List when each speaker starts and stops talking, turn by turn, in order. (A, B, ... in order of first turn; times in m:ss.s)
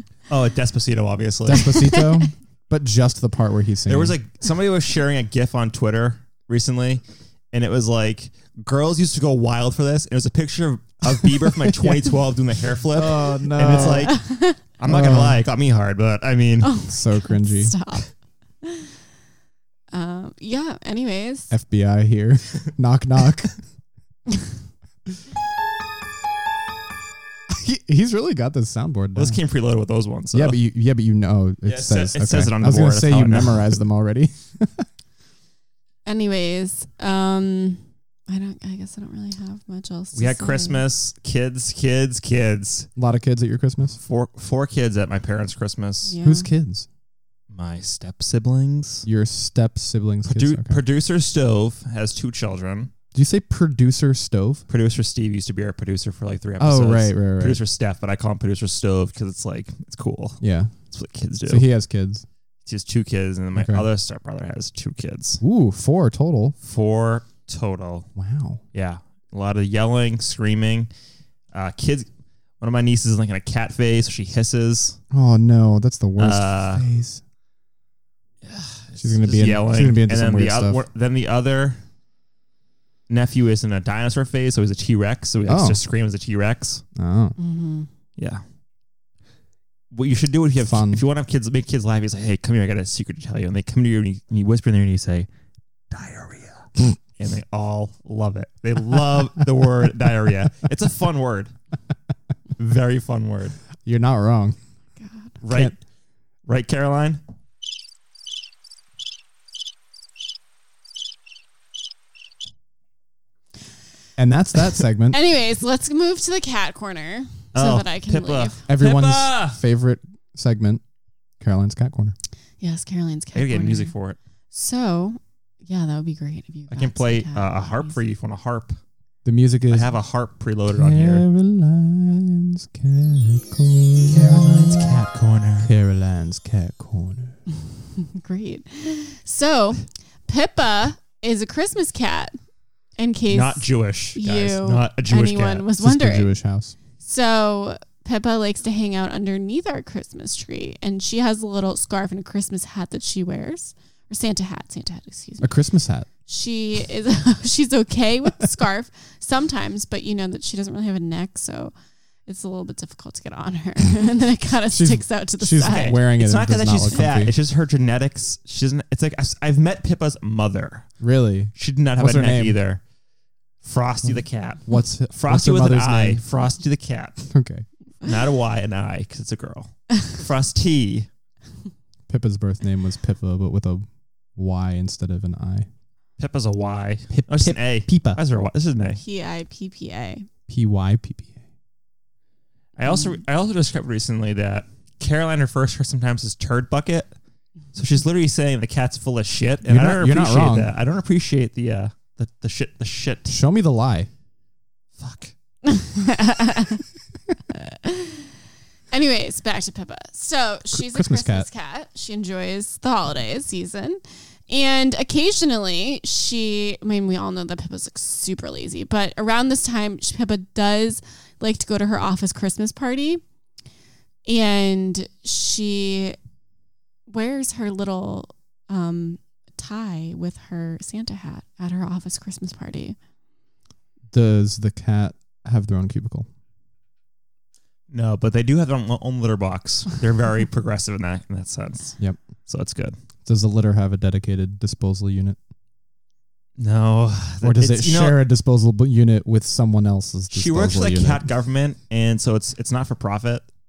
0:00.3-0:02.0 A
0:01.4-0:04.2 B
0:01.6-0:02.3 C
0:03.9-0:16.7 A
0:11.1-0:12.2 B
0:12.9-0:14.1 B
0:13.8-0:14.6 C
0:14.8-0:15.4 B
0:16.6-0:18.1 C
0:16.9-0:17.7 B
0:18.6-0:18.9 C
0:19.9-0:21.5 C
0:21.5-0:23.5 B
0:27.5-0:29.4 B
0:29.1-0:30.6 A
0:30.3-0:34.8 B
0:31.6-0:33.7 A
0:36.0-0:40.8 C
0:40.1-0:42.9 A
0:43.0-0:44.0 B
0:44.0-0:46.1 A
0:46.0-0:46.5 C
0:46.2-0:46.9 B
0:47.5-0:49.0 A
0:49.0-0:50.8 B
0:50.2-0:52.9 A
0:53.1-0:54.6 B
0:54.7-1:00.4 A
0:56.6-0:57.6 B
1:00.4-1:00.7 B
1:00.9-1:01.7 A
1:01.4-1:02.2 B
1:02.6-1:05.4 A
1:03.5-1:03.9 B
1:05.4-1:06.6 B
1:06.6-1:08.1 A
1:08.2-1:08.6 B
1:08.7-1:10.9 A
1:11.5-1:12.1 A
1:12.6-1:15.0 A
1:15.1-1:17.2 B
1:16.2-1:16.8 A
1:18.4-1:21.8 A
1:19.0-1:20.8 B
1:23.1-1:26.8 A
1:25.4-1:25.8 B
1:26.9-1:27.3 B
1:27.4-1:27.9 C
1:28.2-1:28.4 A
1:29.9-1:35.3 A
1:30.6-1:31.0 B
1:35.9-1:41.5 A
1:42.6-1:43.6 A
1:43.8-1:44.6 B
1:45.0-1:45.3 C
1:45.4-1:45.8 A
1:45.5-1:45.7 B
1:46.4-1:47.2 A
1:54.2-1:55.2 B
1:55.1-1:58.6 C
1:57.5-1:59.6 A
1:58.7-2:00.8 B
2:01.4-2:02.1 B
2:02.6-2:03.9 C
2:03.3-2:04.2 A
2:04.5-2:08.0 C
2:06.7-2:08.8 A
2:09.2-2:09.9 B
2:09.7-2:11.2 A
2:10.7-2:15.0 B
2:14.0-2:15.7 A
2:15.6-2:17.3 B
2:18.0-2:22.4 C
2:23.0-2:26.3 C
2:23.3-2:25.7 A
2:25.8-2:26.7 B
2:27.0-2:35.6 C
2:35.4-2:36.1 B
2:36.2-2:41.7 C
2:42.2-2:46.0 C
2:44.7-2:47.4 B
2:45.6-2:50.9 A
2:51.0-2:52.6 B
2:51.6-2:52.8 A
2:53.6-2:57.2 A
2:54.0-2:56.2 B
2:57.3-2:57.6 B
2:58.0-3:01.1 A
3:02.1-3:05.7 B
3:06.2-3:09.0 A
3:07.1-3:08.2 B
3:09.0-3:10.2 C
3:10.5-3:11.3 B
3:12.8-3:17.1 A
3:17.7-3:23.3 A
3:19.7-3:20.7 B
3:23.3-3:24.1 B
3:25.0-3:25.3 A
3:25.6-3:26.8 C
3:27.6-3:28.3 C
3:28.9-3:43.2 C
3:30.7-3:31.5 B
3:44.2-3:46.2 C
3:47.1-3:53.0 C
3:54.1-3:56.3 B
3:57.9-4:03.0 A
4:03.2-4:05.4 B
4:06.6-4:08.2 A
4:07.4-4:11.3 B
4:10.3-4:13.4 A